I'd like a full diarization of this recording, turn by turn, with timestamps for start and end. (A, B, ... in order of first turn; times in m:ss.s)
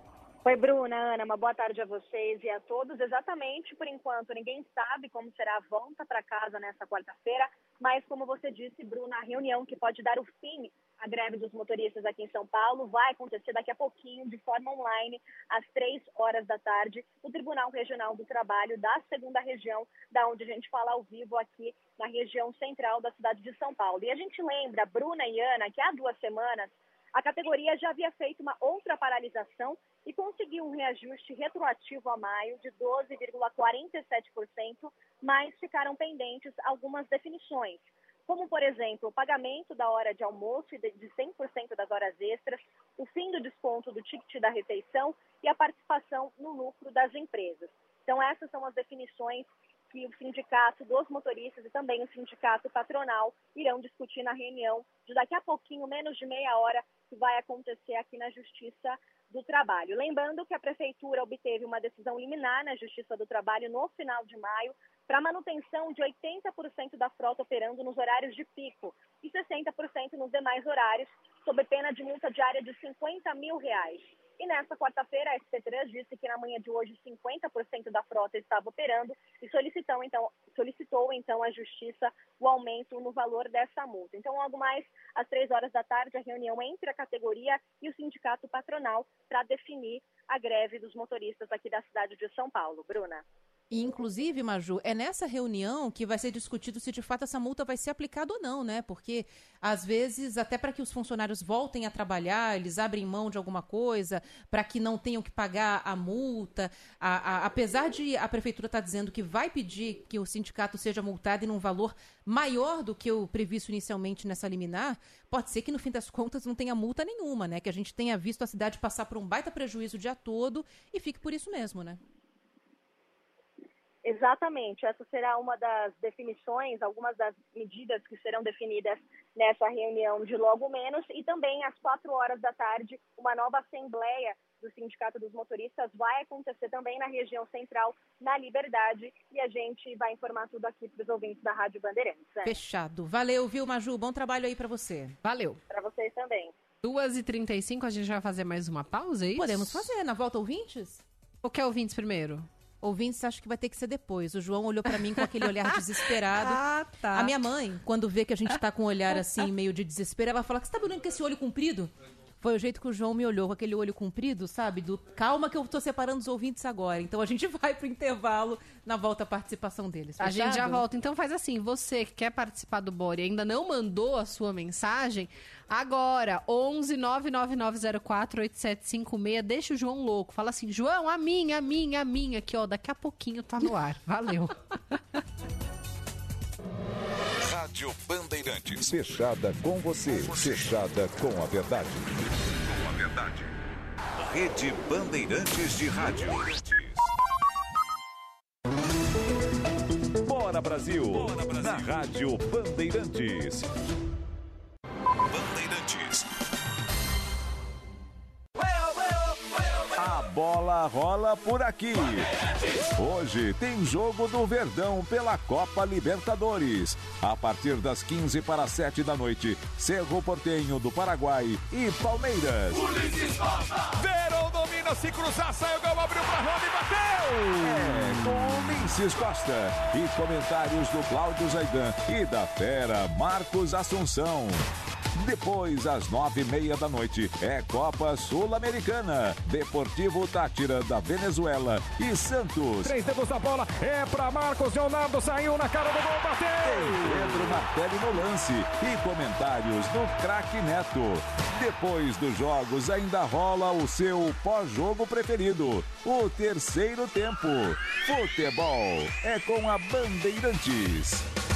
0:00.4-1:33.2 A
1:33.7-2:02.0 B
2:04.0-2:22.5 A
2:22.4-2:25.2 B
2:25.2-2:25.6 C
2:25.7-2:26.5 A
2:26.8-2:29.9 C
2:29.4-2:31.0 B
2:31.4-2:32.5 C
2:32.8-2:36.6 B
2:36.3-2:37.3 C
2:37.1-2:50.8 B
2:50.2-3:04.6 C
3:07.4-3:13.5 D
3:14.2-3:17.1 D
3:20.2-3:23.7 D
3:25.3-3:26.2 D
3:30.0-3:32.3 D
3:32.9-3:42.9 D
3:47.6-4:03.0 D
4:02.9-4:06.5 E
4:06.6-4:21.2 D